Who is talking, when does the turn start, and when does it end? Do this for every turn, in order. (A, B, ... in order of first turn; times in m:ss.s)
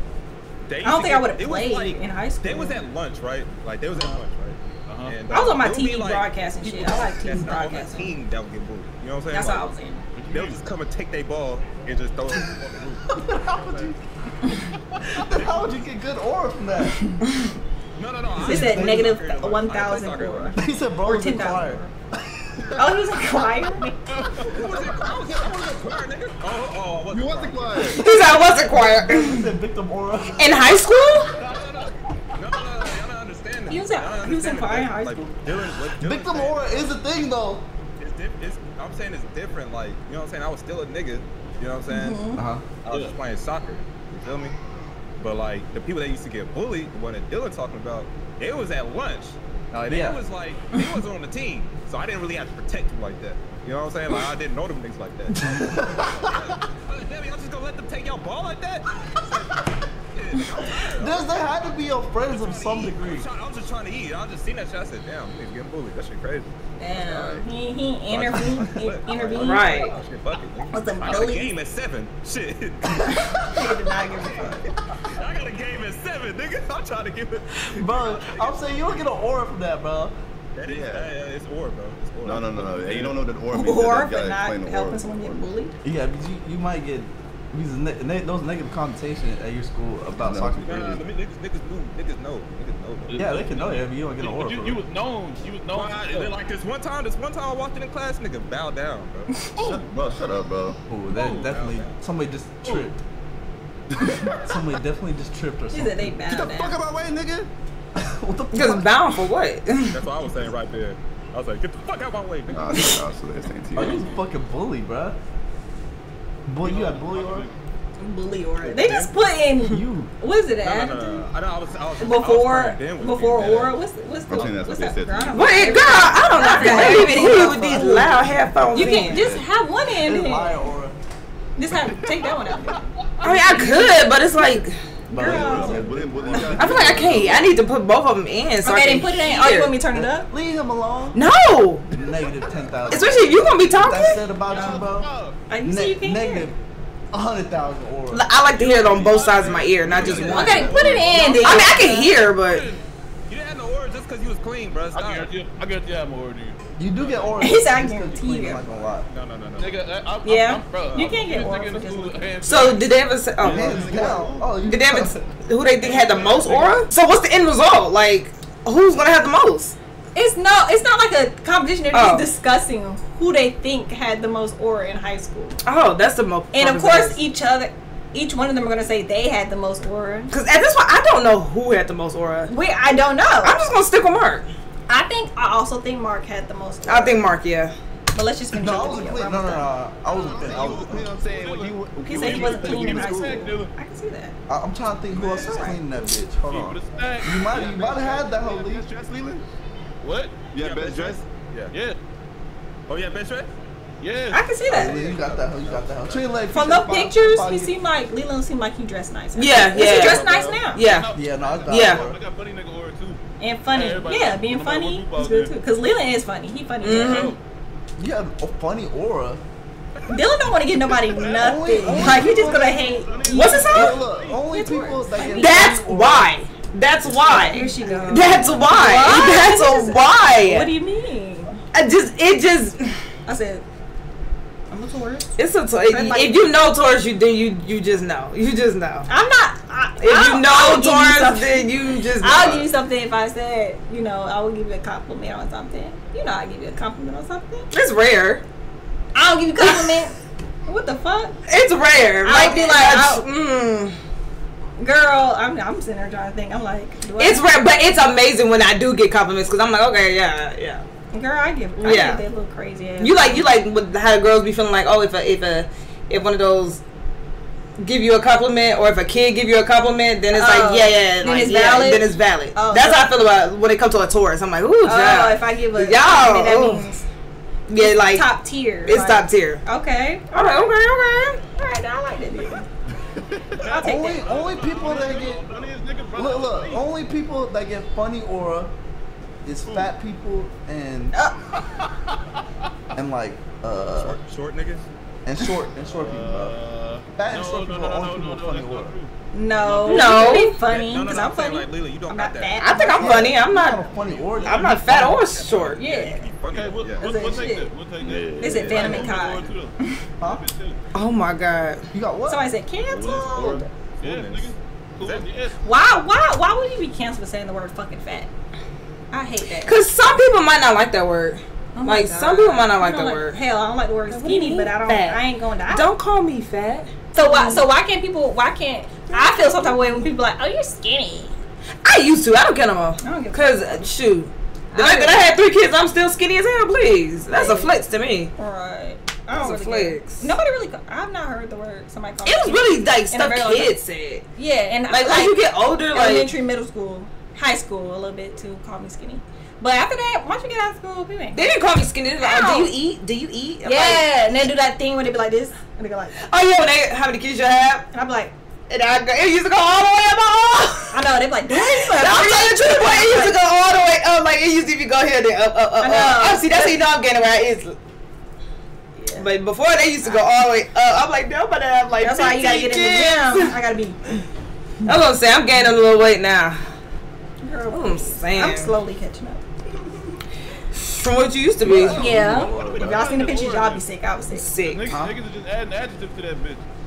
0:00.7-0:09.7 A
0:00.8-0:02.8 B
0:04.9-0:05.2 C
0:05.3-0:08.1 B
0:09.3-0:10.0 B
0:10.2-0:10.6 C
0:10.3-0:13.9 A
0:13.1-0:14.0 D
0:15.1-0:17.2 D
0:15.4-0:15.7 A
0:18.0-0:20.7 A
0:18.3-0:19.1 D
0:18.4-0:21.9 B
0:20.6-0:22.9 D
0:22.8-0:23.9 B
0:24.1-0:24.7 C
0:24.4-0:28.0 A
0:27.1-0:28.0 E
0:28.0-0:29.4 F
0:28.7-0:30.6 D
0:30.4-0:31.3 F
0:31.5-0:36.9 A
0:33.7-0:35.3 B
0:36.0-0:37.7 D
0:38.0-0:42.2 A
0:41.9-0:42.4 B
0:42.4-0:42.6 D
0:42.8-0:44.6 A
0:42.9-0:43.2 C
0:45.2-1:01.2 A
0:49.8-0:50.2 D
0:55.4-0:56.4 D
1:01.0-1:03.3 D
1:02.3-1:07.5 A
1:06.8-1:09.9 B
1:08.1-1:13.2 A
1:09.4-1:09.9 F
1:10.7-1:11.5 B
1:13.1-1:14.6 B
1:14.2-1:18.7 A
1:17.7-1:20.1 D
1:20.6-1:23.2 A
1:20.6-1:21.1 E
1:22.2-1:25.4 E
1:23.5-1:25.7 B
1:25.8-1:31.0 D
1:30.2-1:31.1 E
1:30.6-1:33.7 A
1:33.1-1:36.4 C
1:33.2-1:34.8 D
1:35.7-1:39.4 A
1:39.6-1:40.8 E
1:40.9-1:43.0 D
1:41.1-1:41.5 C
1:41.4-1:41.9 A
1:42.6-1:42.9 C
1:44.0-1:44.4 E
1:44.3-1:46.2 D
1:45.7-1:46.8 B
1:46.3-1:47.5 E
1:48.0-1:49.1 D
1:48.5-1:49.9 F
1:49.9-1:53.0 A
1:52.5-1:54.1 E
1:53.8-1:55.2 D
1:56.5-1:57.5 D
1:56.6-1:57.5 C
1:58.0-2:01.2 B
1:58.6-1:59.1 A
1:59.7-2:00.1 D
2:00.6-2:03.7 A
2:02.0-2:08.2 B
2:04.3-2:06.6 E
2:05.3-2:09.2 F
2:06.4-2:11.0 D
2:08.7-2:10.6 B
2:11.6-2:14.2 B
2:13.2-2:14.8 F
2:13.4-2:13.8 C
2:15.1-2:17.4 D
2:15.2-2:15.8 B
2:15.2-2:17.5 E
2:16.6-2:19.7 F
2:18.6-2:20.3 B
2:19.9-2:21.2 D
2:21.2-2:21.9 F
2:21.9-2:25.1 D
2:22.9-2:24.2 F
2:24.3-2:25.4 C
2:24.5-2:24.8 B
2:25.5-2:26.5 B
2:25.6-2:26.6 D
2:27.1-2:28.3 D
2:28.1-2:30.6 F
2:28.6-2:32.8 C
2:28.9-2:31.6 A
2:30.2-2:32.1 B
2:31.4-2:32.6 F
2:33.3-2:35.3 A
2:34.9-2:37.7 C
2:36.8-2:39.1 D
2:37.4-2:38.6 B
2:39.1-2:39.8 A
2:39.6-2:42.9 C
2:40.2-2:42.4 B
2:40.8-2:41.3 A
2:42.4-2:43.8 F
2:43.4-2:44.3 C
2:43.5-2:45.1 D
2:43.5-2:44.5 E
2:44.6-2:49.8 F
2:45.8-2:46.9 C
2:50.2-2:55.6 B
2:51.9-2:52.3 F
2:55.6-2:57.2 F
2:56.5-3:00.3 B
3:00.3-3:02.5 F
3:02.5-3:03.7 B
3:03.4-3:04.5 F
3:04.9-3:07.3 B
3:06.9-3:07.7 F
3:08.1-3:10.6 B
3:08.5-3:11.1 D
3:10.2-3:13.6 E
3:10.3-3:13.7 C
3:12.1-3:14.4 B
3:14.5-3:18.8 D
3:15.2-3:15.5 C
3:15.3-3:15.8 B
3:16.4-3:18.3 C
3:17.5-3:19.4 E
3:20.0-3:20.4 C
3:20.5-3:21.2 E
3:20.6-3:21.7 A
3:21.7-3:22.0 C
3:22.9-3:23.5 A
3:24.0-3:26.3 C
3:24.3-3:25.1 B
3:24.7-3:27.8 D
3:26.5-3:30.8 B
3:29.4-3:30.2 F
3:29.7-3:33.2 C
3:30.7-3:31.1 F
3:31.1-3:32.2 D
3:31.7-3:32.0 F
3:33.4-3:37.4 B
3:33.7-3:35.6 C
3:36.8-3:37.3 F
3:37.0-3:37.4 C
3:38.0-3:39.4 D
3:40.1-3:43.8 B
3:41.2-3:44.5 C
3:41.4-3:43.0 D
3:43.3-3:44.0 F
3:43.5-3:46.3 D
3:44.5-3:45.8 B
3:45.4-3:50.7 F
3:47.0-3:48.7 D
3:47.2-3:51.6 B
3:51.7-3:53.0 F
3:53.3-3:53.6 B
3:54.7-3:55.4 B
3:55.4-3:59.1 F
3:55.9-3:56.5 B
3:59.1-4:07.7 B
4:00.0-4:02.7 F
4:07.7-4:08.4 F
4:09.2-4:10.1 B
4:09.6-4:09.9 F
4:10.7-4:11.4 B
4:11.5-4:14.0 F
4:12.2-4:13.2 B
4:14.8-4:17.4 B
4:17.2-4:20.8 F
4:21.1-4:23.5 B
4:21.8-4:22.2 F
4:23.0-4:26.8 F
4:27.8-4:36.8 F
4:30.3-4:33.1 B
4:34.8-4:37.1 B
4:37.7-4:38.3 F
4:37.8-4:40.8 B
4:38.8-4:39.6 F
4:40.3-4:41.4 F
4:41.6-4:42.7 B
4:43.6-4:46.9 C
4:43.7-4:44.3 B
4:43.8-4:45.5 D
4:46.2-4:48.7 D
4:49.4-4:51.2 D
4:53.0-4:54.2 D
4:54.0-4:54.9 A
4:55.2-4:56.6 D
4:55.9-4:59.1 C
4:57.2-4:58.9 D
4:59.3-5:03.5 B
4:59.6-5:02.6 A
4:59.7-4:59.9 C
4:59.9-5:00.6 F
5:02.6-5:03.8 F
5:03.0-5:05.2 D
5:04.1-5:04.9 C
5:04.4-5:05.8 F
5:04.9-5:07.4 A
5:05.8-5:06.3 B
5:06.5-5:10.8 C
5:07.0-5:07.7 B
5:08.0-5:09.3 E
5:08.4-5:09.9 B
5:10.2-5:10.5 D
5:10.9-5:11.8 F
5:11.9-5:12.4 D
5:12.3-5:13.7 B
5:12.9-5:15.6 C
5:14.0-5:15.3 A
5:15.6-5:18.3 B
5:19.1-5:19.8 B
5:19.6-5:23.4 F
5:21.8-5:25.9 B
5:24.1-5:27.6 F
5:27.1-5:31.4 B
5:29.1-5:29.8 F
5:31.8-5:38.3 F
5:33.0-5:33.9 B
5:34.7-5:35.3 B
5:37.3-5:37.7 B
5:38.4-5:43.8 B
5:39.3-5:40.3 F
5:42.2-5:44.3 F
5:44.4-5:45.4 B
5:44.9-5:46.3 F
5:45.9-5:51.4 B
5:51.4-5:54.0 F
5:52.2-5:52.7 B
5:53.6-5:56.2 B
5:56.2-5:57.9 F
5:57.9-5:58.3 B
5:58.7-6:01.0 F
6:00.9-6:03.4 B
6:01.7-6:07.8 F
6:05.8-6:06.8 B
6:09.0-6:09.3 B
6:09.2-6:13.5 F
6:12.0-6:14.0 B
6:14.9-6:16.6 F
6:17.4-6:19.4 B
6:17.7-6:18.7 F
6:20.7-6:22.0 F
6:21.6-6:23.0 D
6:21.8-6:24.5 B
6:22.1-6:23.8 C
6:24.3-6:24.9 F
6:24.6-6:26.6 C
6:24.9-6:25.2 D